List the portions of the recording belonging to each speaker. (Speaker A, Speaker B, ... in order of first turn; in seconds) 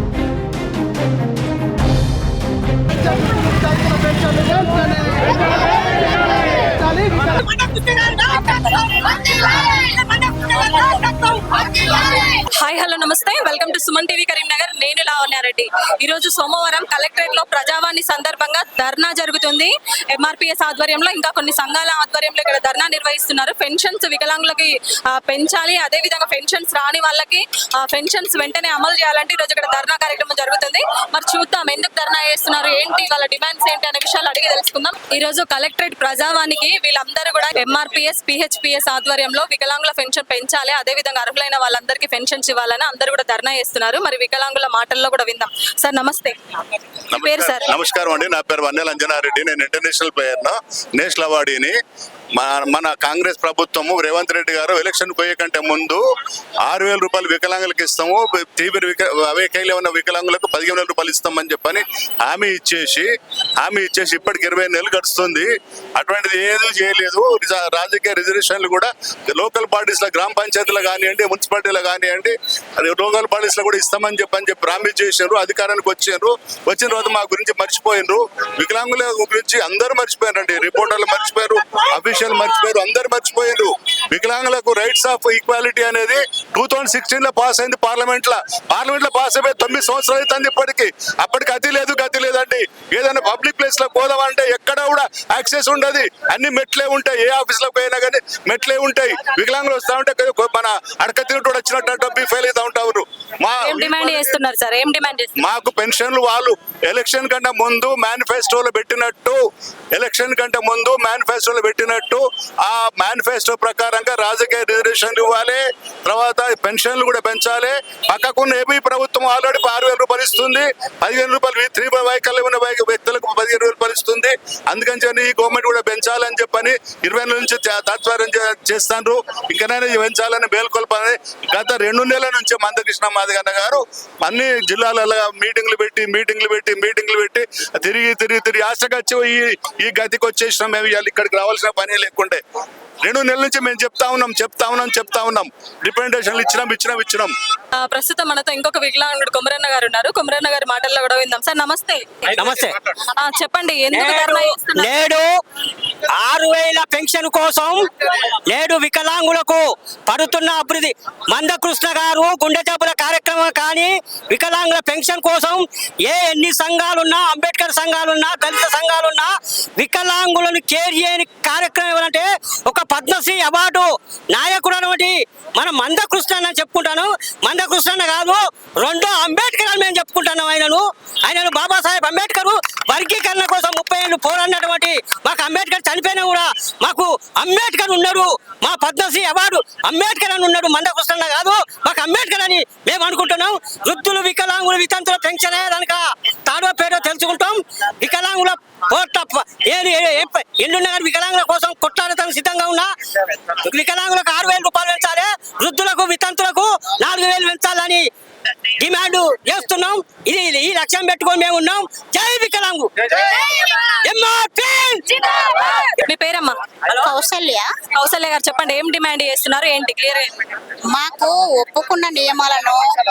Speaker A: 7.3-8.4, 152.3-152.8, 153.9-155.3, 156.1-208.1, 208.8-215.0
Speaker B: 11.5-46.4, 47.1-47.7, 103.6-105.3, 147.8-152.6, 153.2-154.9, 215.1-216.5, 218.0-220.4
Speaker C: 47.1-51.8, 52.4-56.0, 56.6-104.3, 105.4-109.4, 109.9-142.4, 143.0-147.3
Speaker D: 216.9-217.7, 220.9-222.8